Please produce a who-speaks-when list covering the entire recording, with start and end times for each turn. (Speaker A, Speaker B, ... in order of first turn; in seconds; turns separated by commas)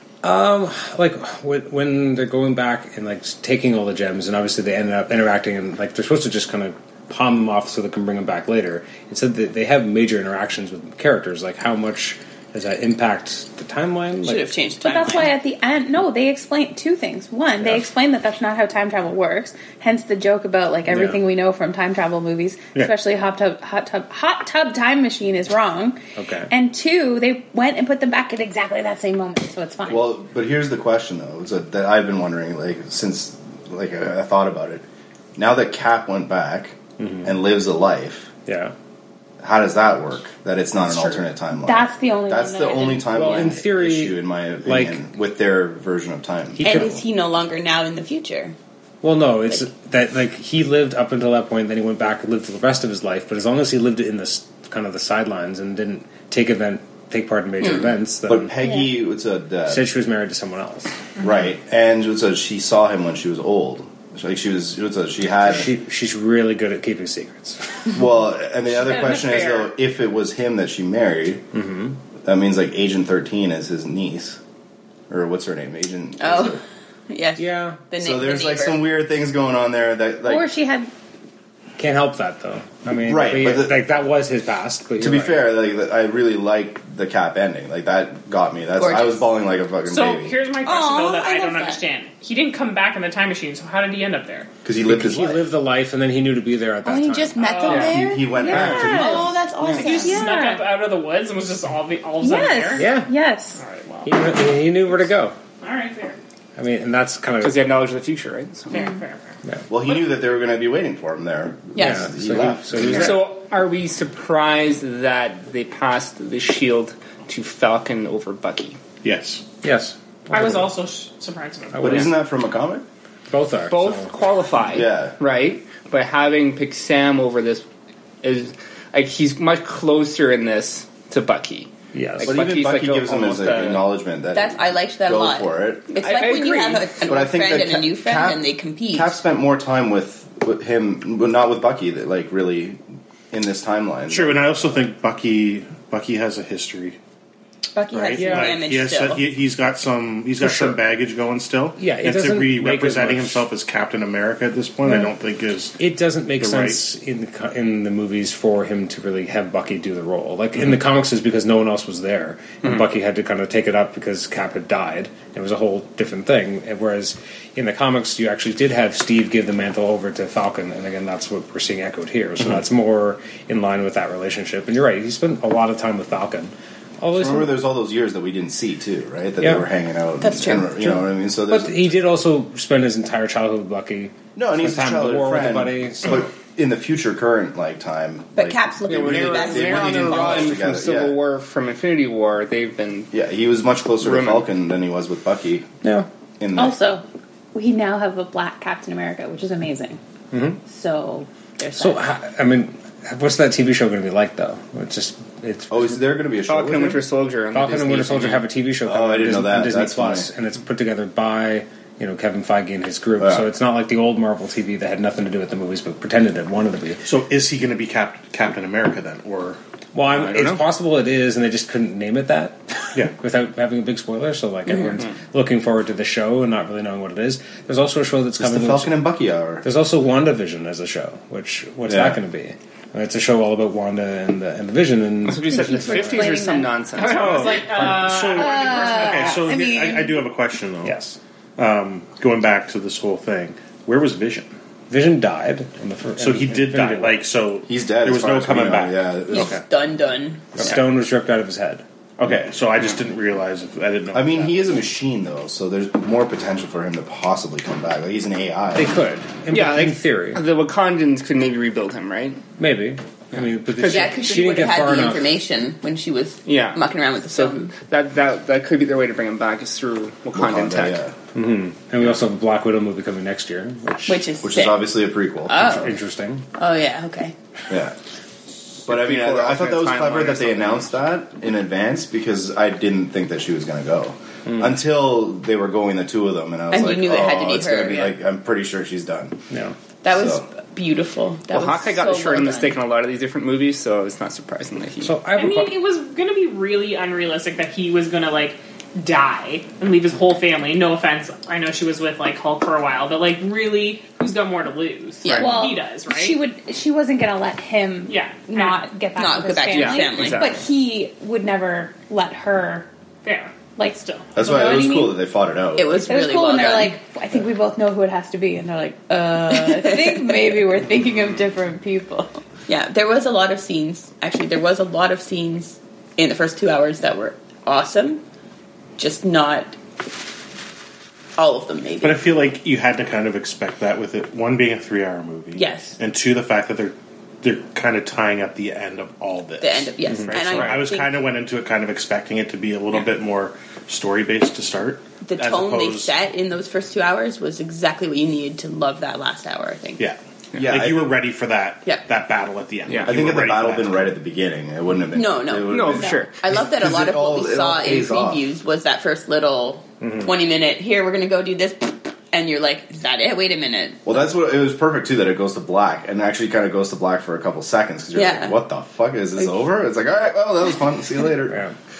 Speaker A: 0.2-14.5, Speaker B: 14.2-15.3, Speaker C: 14.8-26.0, Speaker A: 20.9-21.2, Speaker A: 26.1-26.5, Speaker C: 26.5-30.2, Speaker D: 29.9-34.8, Speaker D: 35.4-38.3, Speaker A: 37.0-37.3, Speaker A: 38.5-38.7, Speaker D: 39.4-46.9, Speaker C: 41.6-43.4, Speaker A: 43.1-45.0, Speaker A: 46.5-47.0, Speaker B: 46.6-48.5, Speaker A: 49.0-58.6, Speaker B: 57.6-57.9, Speaker D: 58.2-59.9, Speaker C: 58.6-58.9, Speaker A: 59.7-60.9, Speaker E: 61.2-61.5, Speaker D: 61.2-65.7, Speaker A: 65.4-67.9, Speaker D: 67.9-71.4, Speaker E: 68.7-69.7, Speaker A: 71.5-72.0, Speaker D: 72.2-74.4, Speaker D: 75.1-76.6, Speaker B: 76.2-78.8, Speaker A: 77.3-77.8, Speaker D: 78.0-80.5, Speaker C: 80.2-80.9, Speaker A: 81.8-85.5, Speaker D: 83.0-83.8, Speaker D: 85.0-90.4, Speaker B: 88.8-89.2, Speaker E: 89.8-94.5, Speaker B: 90.6-91.8, Speaker D: 94.6-95.5, Speaker A: 94.8-97.5, Speaker B: 96.8-100.2, Speaker E: 97.4-98.0, Speaker C: 97.5-100.7, Speaker D: 97.7-99.3, Speaker E: 99.8-102.9, Speaker C: 102.2-103.6, Speaker A: 102.8-103.1, Speaker E: 103.6-104.1, Speaker A: 104.0-105.3, Speaker E: 105.6-106.2, Speaker A: 106.6-107.7, Speaker F: 107.4-108.7, Speaker E: 108.7-109.3, Speaker D: 109.7-113.3, Speaker B: 111.8-112.1, Speaker A: 111.8-113.2, Speaker F: 112.9-118.8, Speaker G: 119.0-119.4, Speaker A: 119.6-120.7, Speaker E: 120.3-122.0, Speaker A: 121.7-122.1, Speaker D: 121.8-122.8, Speaker A: 123.3-124.1, Speaker F: 123.7-127.6, Speaker D: 124.7-125.1, Speaker F: 128.2-133.8, Speaker A: 131.9-132.4, Speaker D: 132.2-135.9, Speaker B: 134.3-139.1, Speaker F: 135.9-136.9, Speaker D: 137.0-144.4, Speaker G: 144.1-147.0, Speaker B: 147.7-149.2, Speaker G: 147.9-155.8, Speaker A: 148.1-148.6, Speaker A: 150.4-150.8, Speaker A: 151.8-153.5, Speaker A: 155.8-177.5, Speaker G: 156.4-156.8, Speaker D: 177.2-181.8, Speaker A: 179.4-179.7, Speaker B: 180.2-180.8, Speaker A: 181.5-186.3, Speaker D: 184.3-191.2, Speaker B: 188.3-190.5, Speaker F: 188.9-193.1, Speaker D: 193.1-195.7, Speaker F: 194.0-194.5, Speaker A: 195.8-196.1, Speaker D: 196.4-196.8, Speaker C: 196.5-200.0, Speaker A: 200.3-200.6, Speaker C: 200.6-202.0, Speaker A: 201.8-206.0, Speaker D: 205.7-207.0, Speaker F: 206.4-208.4, Speaker A: 207.5-217.0, Speaker D: 208.8-210.3, Speaker D: 213.2-213.5, Speaker G: 217.0-219.6, Speaker A: 219.9-229.0, Speaker F: 220.1-220.6, Speaker D: 228.4-229.6, Speaker A: 229.6-236.3, Speaker D: 231.9-232.2, Speaker F: 235.2-237.5, Speaker C: 235.5-240.2, Speaker E: 236.9-239.5, Speaker G: 237.2-241.0, Speaker A: 240.8-241.2, Speaker G: 241.6-244.5, Speaker A: 244.9-247.2, Speaker G: 246.2-249.1, Speaker D: 247.7-249.5, Speaker B: 249.3-250.8, Speaker A: 249.3-249.6, Speaker A: 250.6-251.8, Speaker G: 252.2-254.6, Speaker D: 254.1-258.9, Speaker A: 258.7-260.4, Speaker F: 259.5-262.4, Speaker A: 262.6-265.3, Speaker F: 263.3-264.1, Speaker B: 263.8-267.7, Speaker F: 266.4-271.0, Speaker D: 270.3-271.1, Speaker A: 271.3-274.2, Speaker B: 274.1-276.0, Speaker D: 274.4-275.5, Speaker A: 275.6-276.4, Speaker B: 276.6-277.3, Speaker D: 277.7-277.9, Speaker F: 278.8-281.1, Speaker D: 278.9-289.4, Speaker A: 284.5-284.7, Speaker B: 286.7-288.1, Speaker A: 289.5-289.8, Speaker B: 290.0-292.8, Speaker D: 290.1-290.4, Speaker F: 291.5-295.1, Speaker A: 295.0-295.8, Speaker E: 295.4-306.4, Speaker F: 305.2-305.5, Speaker C: 305.2-312.9, Speaker E: 308.1-308.8, Speaker B: 309.2-310.6, Speaker F: 309.7-310.6, Speaker E: 313.2-314.8, Speaker C: 313.8-315.2, Speaker D: 314.3-316.0, Speaker B: 315.8-317.0, Speaker C: 315.9-322.3, Speaker B: 319.4-320.7, Speaker B: 322.7-328.2, Speaker B: 329.0-329.8, Speaker B: 331.4-332.3, Speaker G: 332.0-346.1, Speaker B: 335.5-336.0, Speaker B: 339.6-341.2, Speaker A: 340.1-340.4, Speaker B: 345.2-350.1, Speaker G: 350.0-354.0, Speaker D: 350.6-351.1, Speaker F: 352.9-353.2, Speaker D: 353.1-358.4, Speaker B: 355.1-364.2, Speaker F: 355.7-356.4, Speaker A: 360.0-360.3, Speaker D: 364.1-371.6, Speaker B: 368.1-368.6, Speaker A: 371.5-371.7